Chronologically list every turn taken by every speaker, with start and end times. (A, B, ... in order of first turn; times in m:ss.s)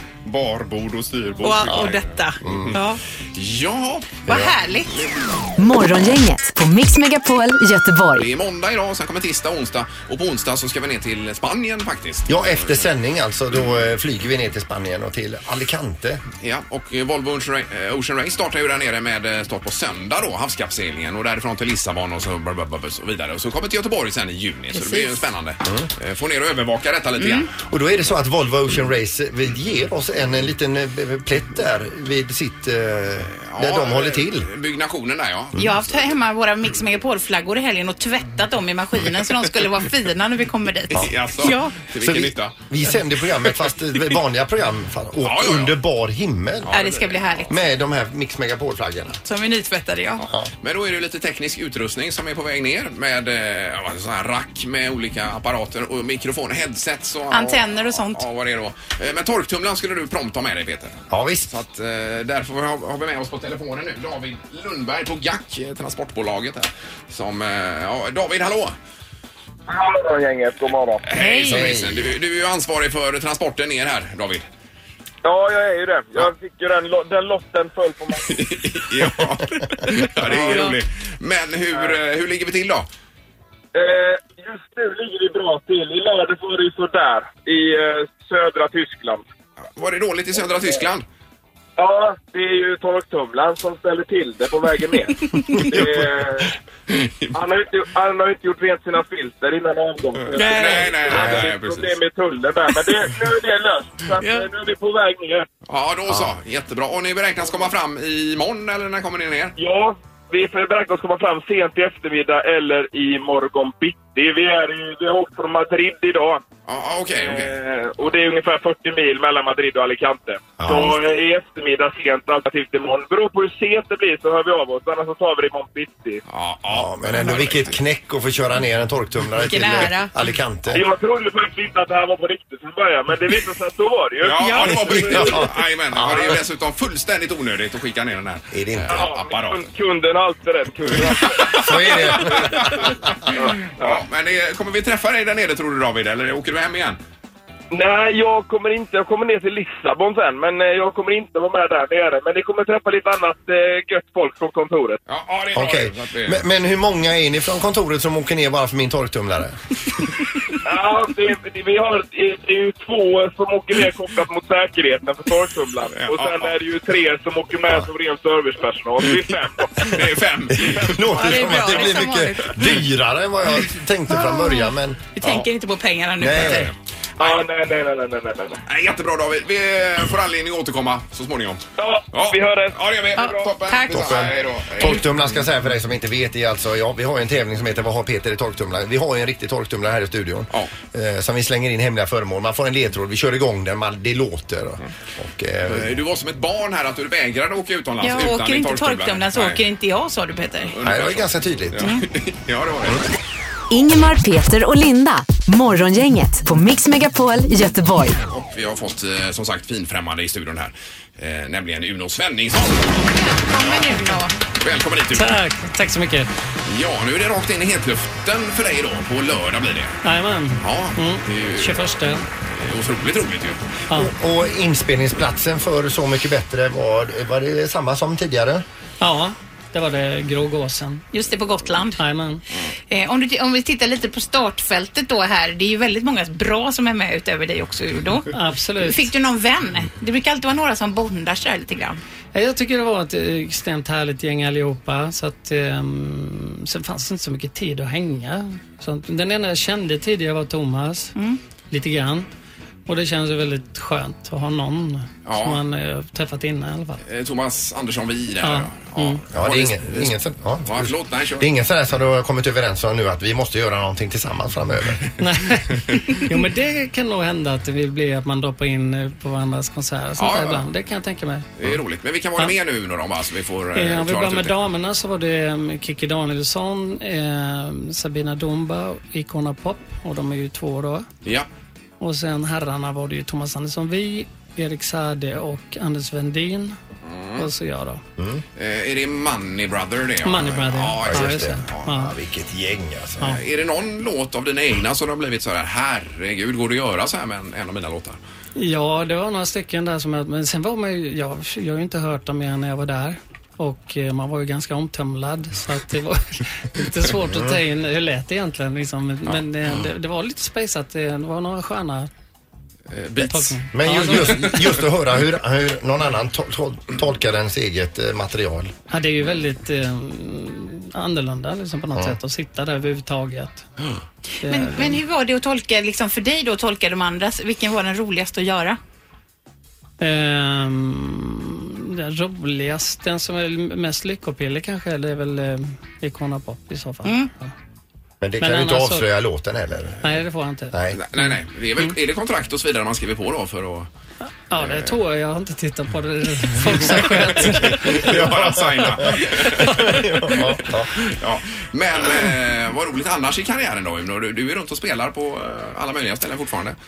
0:00.2-0:04.3 A
0:01.4-0:03.0 B
0:02.4-0:02.8 C
0:04.3-0:04.5 C
0:04.3-0:04.9 B
0:05.6-0:08.3 D
0:08.2-0:12.9 A
0:12.3-0:16.2 C
0:16.4-0:27.5 A
0:24.7-0:25.3 B
0:27.2-0:27.5 B
0:27.7-0:34.5 C
0:33.4-0:36.1 A
0:35.6-0:41.8 B
0:40.9-0:42.7 A
0:42.0-0:46.7 C
0:43.4-0:43.6 A
0:45.2-0:45.8 A
0:46.6-0:47.5 A
0:46.7-0:47.5 B
0:47.5-0:49.2 C
0:49.2-0:50.2 B
0:50.6-1:08.7 A
0:57.3-0:58.2 B
1:01.1-1:01.5 C
1:09.7-1:11.1 E
1:11.0-1:14.4 A
1:11.1-1:11.7 B
1:11.5-1:12.1 C
1:15.2-1:18.4 E
1:18.2-1:22.9 A
1:20.3-1:20.6 E
1:20.4-1:20.8 B
1:23.7-1:29.2 E
1:29.7-1:31.0 A
1:31.8-1:36.5 E
1:35.3-1:35.7 B
1:36.9-1:37.3 A
1:37.3-1:45.5 E
1:40.3-1:41.0 B
1:40.3-1:41.9 A
1:41.1-1:41.4 C
1:44.2-1:44.5 B
1:45.7-1:49.6 A
1:49.6-1:56.4 E
1:56.6-1:57.6 A
1:57.2-2:06.2 E
2:00.6-2:01.0 C
2:06.3-2:07.8 A
2:06.7-2:10.8 C
2:09.4-2:10.1 B
2:10.7-2:15.4 E
2:14.2-2:19.6 A
2:14.4-2:14.8 B
2:15.1-2:16.3 C
2:18.5-2:19.0 C
2:18.9-2:21.7 E
2:21.0-2:27.0 A
2:21.5-2:22.9 C
2:23.3-2:24.0 E
2:27.7-2:35.0 E
2:35.1-2:36.4 A
2:35.5-2:39.6 C
2:40.6-2:50.0 E
2:45.9-2:46.5 A
2:49.8-2:51.1 A
2:50.5-2:55.0 C
2:51.1-2:52.8 B
2:54.1-2:56.7 B
2:55.2-2:55.5 A
2:56.2-2:56.7 C
2:56.3-2:57.4 A
2:57.2-2:58.6 E
2:58.7-3:05.4 A
3:01.8-3:02.8 E
3:03.2-3:04.3 B
3:03.9-3:15.9 C
3:15.7-3:19.6 A
3:18.0-3:20.8 B
3:20.7-3:23.1 A
3:20.8-3:21.8 C
3:23.7-3:28.2 D
3:28.3-3:35.4 A
3:33.1-3:34.4 B
3:35.1-3:36.3 F
3:36.6-3:40.0 A
3:40.0-3:42.2 F
3:40.6-3:41.9 A
3:42.4-3:43.6 A
3:43.9-3:48.6 C
3:49.0-3:51.0 F
3:51.1-3:52.0 B
3:52.0-3:52.4 F
3:52.9-4:02.0 B
3:58.3-3:59.1 F
4:02.3-4:11.1 F
4:11.7-4:12.3 F
4:12.9-4:17.0 F
4:15.2-4:15.6 A
4:17.0-4:21.5 A
4:18.4-4:19.2 F
4:19.3-4:25.0 C
4:25.2-4:31.5 F
4:30.2-4:30.6 A
4:31.6-4:34.5 A
4:33.7-4:41.1 F
4:42.0-4:46.8 F
4:47.0-4:47.5 A
4:47.4-4:48.0 F
4:48.2-4:48.4 C
4:48.6-4:51.9 A
4:50.2-4:52.1 F
4:51.0-4:53.4 C
4:53.2-4:58.2 A
4:58.6-5:12.1 F
5:07.2-5:07.6 C
5:12.9-5:14.7 A
5:13.2-5:14.6 F
5:13.7-5:18.7 C
5:18.9-5:23.7 F
5:24.4-5:25.0 F
5:24.4-5:28.8 B
5:30.0-5:37.5 F
5:37.0-5:37.3 B
5:38.2-5:40.0 C
5:38.4-5:39.1 F
5:40.0-5:41.3 F
5:40.7-5:41.0 C
5:40.9-5:43.9 A
5:44.5-5:48.2 F
5:44.6-5:44.9 A
5:47.0-5:56.8 A
5:47.7-5:50.9 C
5:49.5-5:50.3 F